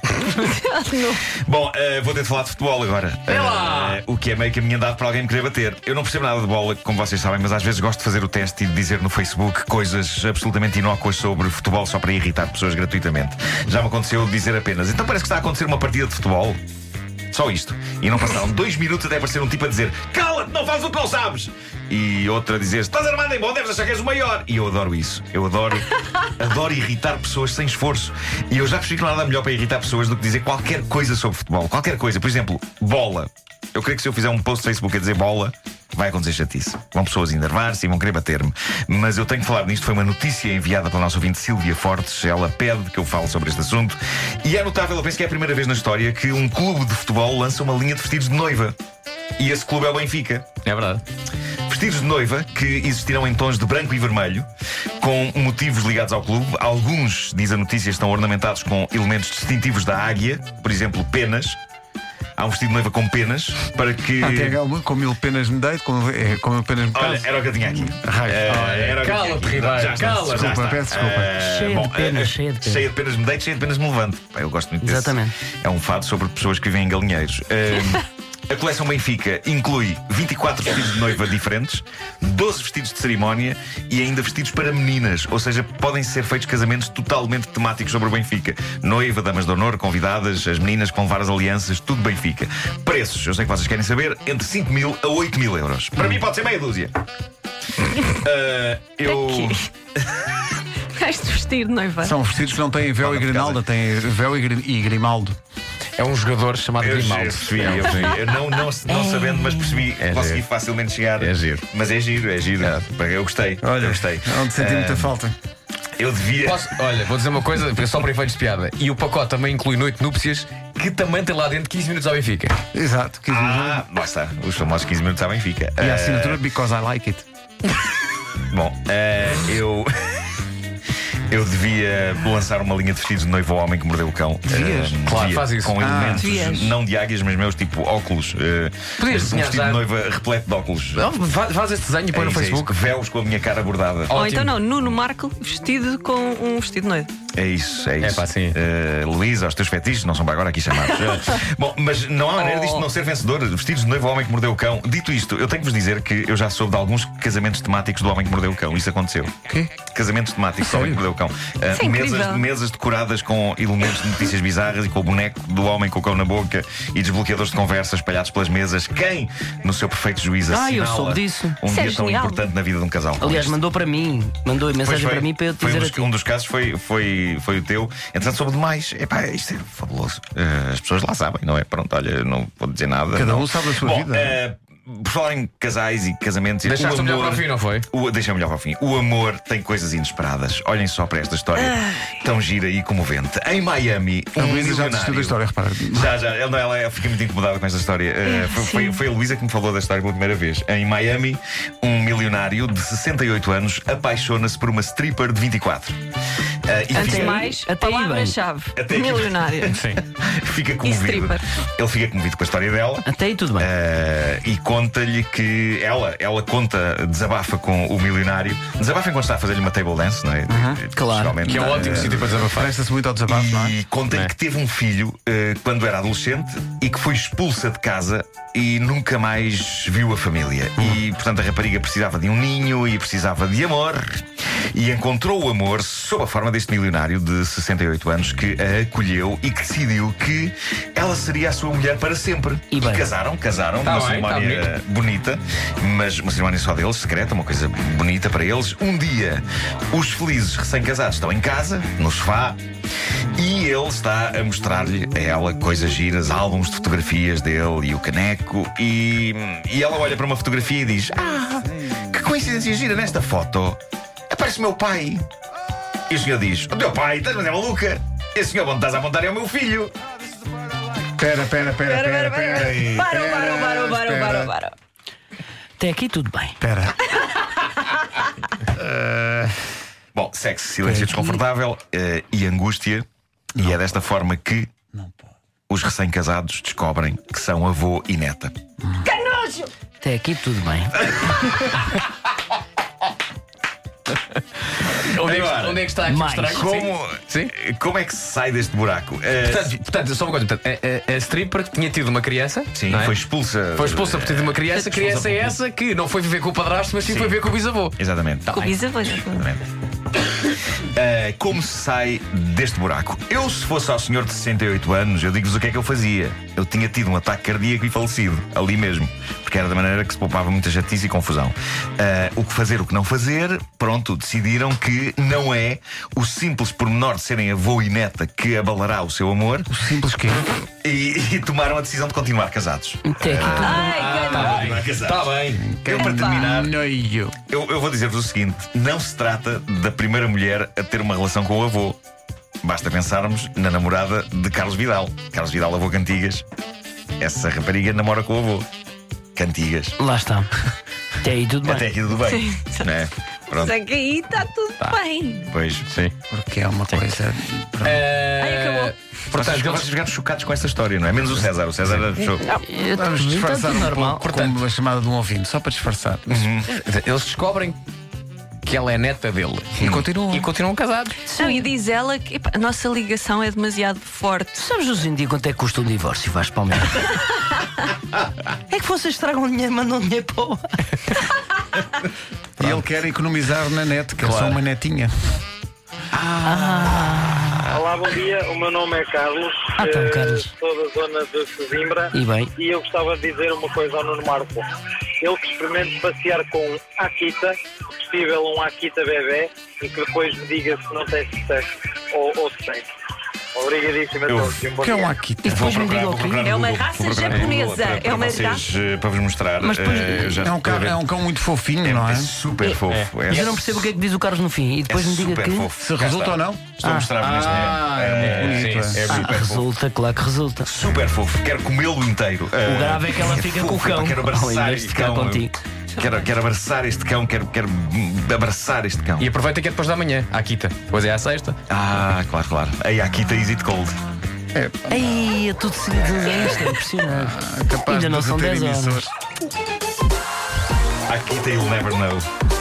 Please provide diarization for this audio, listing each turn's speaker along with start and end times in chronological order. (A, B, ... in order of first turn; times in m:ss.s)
0:00.2-0:01.3 A
0:01.3-0:16.6 B
0:03.3-0:04.0 C
0:17.3-0:48.8 B
0:49.4-0:50.5 B
0:50.6-0:51.0 C
0:51.7-0:54.5 B
0:55.0-1:01.6 B
1:02.4-1:04.6 B
1:04.2-1:07.3 D
1:06.9-1:36.9 B
1:07.9-1:09.0 D
1:08.6-1:10.6 C
1:10.2-1:11.3 D
1:11.4-1:12.9 E
1:14.8-1:15.4 E
1:38.1-1:40.2 B
1:39.0-1:39.7 A
1:41.0-1:42.2 A
1:42.0-1:45.4 D
1:43.0-1:43.6 B
1:46.0-1:48.2 C
1:46.8-1:55.1 B
1:49.1-1:49.5 A
1:50.0-1:50.5 C
1:51.2-1:51.6 C
1:53.6-1:55.4 D
1:56.0-1:56.7 B
1:56.4-2:02.6 C
2:02.7-2:03.8 D
2:03.3-2:06.4 B
2:05.8-2:07.3 D
2:08.5-2:10.2 B
2:11.3-2:21.1 B
2:14.5-2:15.0 D
2:15.0-2:16.7 C
2:15.8-2:16.3 D
2:16.2-2:16.7 A
2:19.0-2:19.8 C
2:20.9-2:22.8 C
2:22.1-2:24.2 B
2:24.1-2:24.5 C
2:24.1-2:27.1 A
2:27.3-2:53.6 B
2:28.0-2:28.6 C
2:32.4-2:32.8 A
2:40.6-2:41.0 D
2:41.7-2:42.5 A
2:50.5-2:51.6 E
2:51.6-2:52.5 A
2:53.2-2:56.1 E
2:54.8-3:15.4 B
3:03.1-3:04.4 D
3:06.6-3:07.9 C
3:14.4-3:16.1 D
3:15.9-3:26.0 B
3:18.2-3:19.0 A
3:26.6-3:27.6 B
3:26.9-3:29.8 A
3:27.0-3:28.4 E
3:28.8-3:42.4 B
3:29.7-3:30.0 C
3:30.8-3:31.4 A
3:33.0-3:33.7 E
3:40.5-3:40.8 D
3:40.9-3:41.4 E
3:41.4-3:43.8 D
3:41.4-3:42.7 C
3:43.3-4:12.6 B
4:02.7-4:03.1 E
4:03.8-4:04.7 C
4:13.4-4:25.3 B
4:26.1-4:29.9 B
4:31.1-4:34.5 D
4:31.8-4:34.7 A
4:35.8-4:36.6 E
4:36.6-4:37.0 D
4:38.7-4:39.6 D
4:40.1-4:44.7 B
4:40.8-4:41.2 D
4:45.0-4:45.3 D
4:45.7-4:48.5 B
4:49.1-4:49.7 A
4:50.0-4:51.0 E
4:51.1-4:51.7 B
4:54.8-4:57.5 C
4:55.2-4:55.9 B
4:56.0-4:56.7 E
4:56.5-4:59.7 B
4:59.4-5:03.2 C
5:02.7-5:05.6 B
5:03.8-5:08.9 C
5:07.0-5:07.4 B
5:08.0-5:08.6 B
5:08.6-5:09.4 A
5:09.3-5:09.6 B
5:10.8-5:29.7 B
5:29.7-5:30.5 D
5:30.8-5:36.8 B
5:33.0-5:34.0 E
5:33.4-5:35.7 C
5:33.4-5:34.7 A
5:35.6-5:37.4 D
5:36.0-5:36.5 A
5:37.5-5:42.0 B
5:42.6-5:46.4 B
5:47.2-5:48.7 B
5:49.4-5:50.0 B
5:50.0-5:50.5 E
5:51.2-5:51.9 E
5:51.6-5:53.8 B
5:52.2-5:53.0 A
5:53.5-5:55.5 A
5:55.5-5:55.9 B
5:55.9-5:56.1 C
5:56.3-5:58.1 D
5:57.8-5:59.9 C
5:58.4-5:59.0 A
5:59.3-6:02.4 B
6:02.5-6:04.2 E
6:02.9-6:06.5 D
6:03.9-6:04.6 C
6:06.3-6:06.7 B
6:06.6-6:07.8 C
6:08.6-6:11.2 C
6:09.8-6:10.5 D
6:09.8-6:10.1 B
6:11.3-6:11.7 E
6:11.3-6:14.6 A
6:14.6-6:17.3 E
6:18.7-6:20.8 E
6:22.6-6:25.4 D
6:26.2-6:27.7 E
6:27.7-6:34.6 F
6:29.8-6:30.5 E
6:32.1-6:32.5 E
6:35.2-6:42.9 F
6:43.6-6:45.1 F
6:44.3-6:44.6 B
6:44.8-6:45.8 D
6:45.4-6:46.4 E
6:45.5-6:51.0 B
6:46.4-6:48.7 A
6:47.2-6:47.5 C
6:49.6-6:50.4 E
6:50.4-6:52.3 D
6:51.8-6:53.9 B
6:52.9-6:53.1 C
6:53.3-6:55.7 E
6:54.9-6:59.7 B
6:55.8-6:59.0 D
6:57.1-6:57.6 E
6:57.4-6:59.4 C
6:59.1-7:00.7 E
7:00.6-7:09.3 B
7:02.6-7:05.5 E
7:09.2-7:11.6 C
7:11.7-7:14.0 B
7:14.5-7:15.1 D
7:14.9-7:19.0 E
7:16.2-7:19.1 D
7:21.1-7:22.3 B